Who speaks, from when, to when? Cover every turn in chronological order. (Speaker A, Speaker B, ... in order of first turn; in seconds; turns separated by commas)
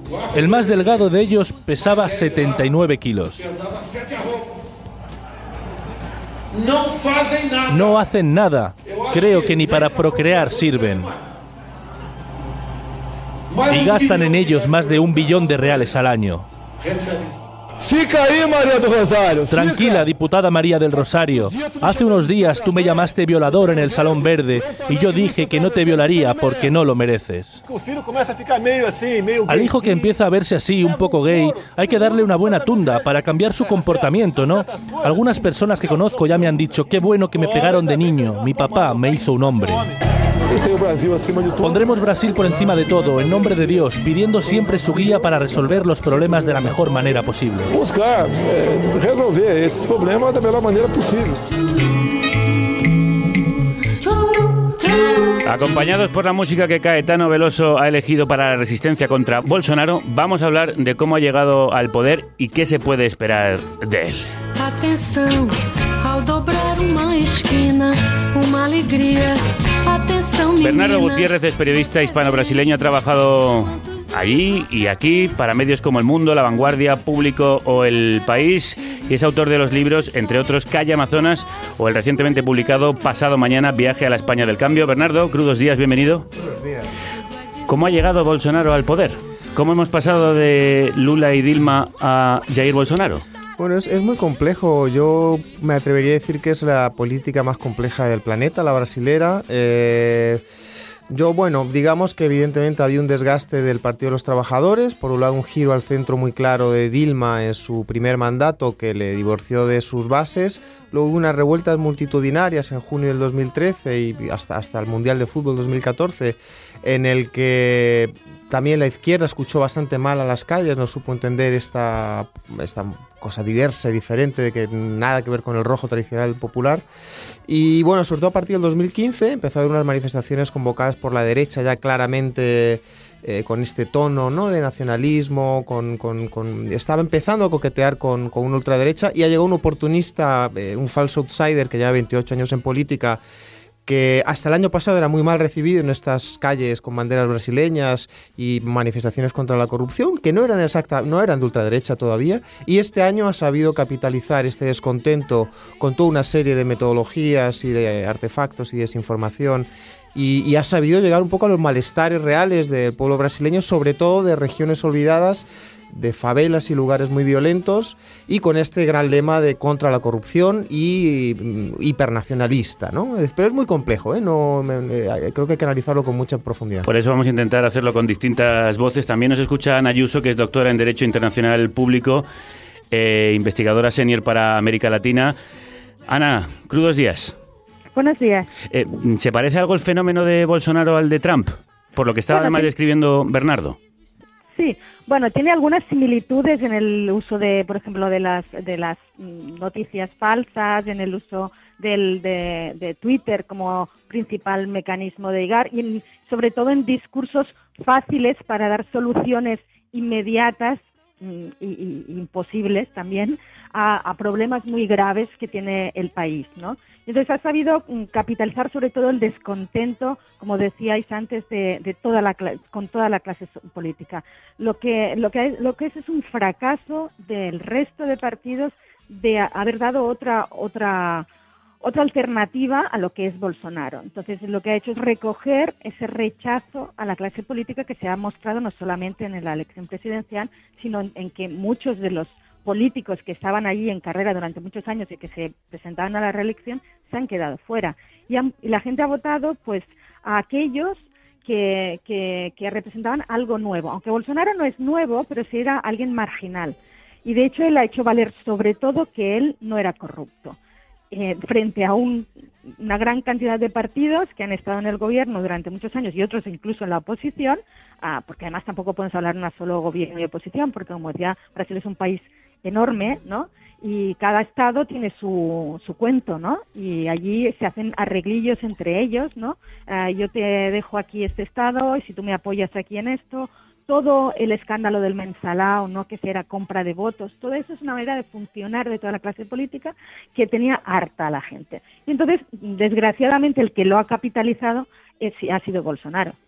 Speaker A: 0.3-3.5, Speaker B: 3.6-4.4, Speaker B: 6.5-7.9, Speaker A: 7.7-11.1, Speaker B: 8.9-10.0, Speaker B: 13.5-14.8, Speaker A: 13.7-16.4, Speaker B: 16.8-20.1, Speaker A: 19.5-27.6, Speaker B: 21.4-22.4, Speaker B: 24.6-25.9, Speaker B: 27.6-29.8, Speaker A: 29.4-39.9, Speaker B: 40.5-41.9, Speaker A: 41.6-47.7, Speaker B: 47.7-51.4, Speaker C: 55.4-64.3, Speaker D: 64.6-71.9, Speaker C: 70.6-86.2, Speaker C: 87.7-93.2, Speaker E: 93.6-100.4, Speaker E: 101.1-126.8, Speaker E: 127.5-143.2, Speaker E: 143.8-176.9, Speaker C: 176.8-182.2, Speaker C: 182.9-185.3, Speaker C: 186.1-187.3, Speaker F: 187.9-188.5, Speaker C: 188.7-193.8, Speaker F: 192.3-192.7, Speaker F: 194.5-231.2, Speaker F: 231.8-260.6, Speaker F: 261.1-296.4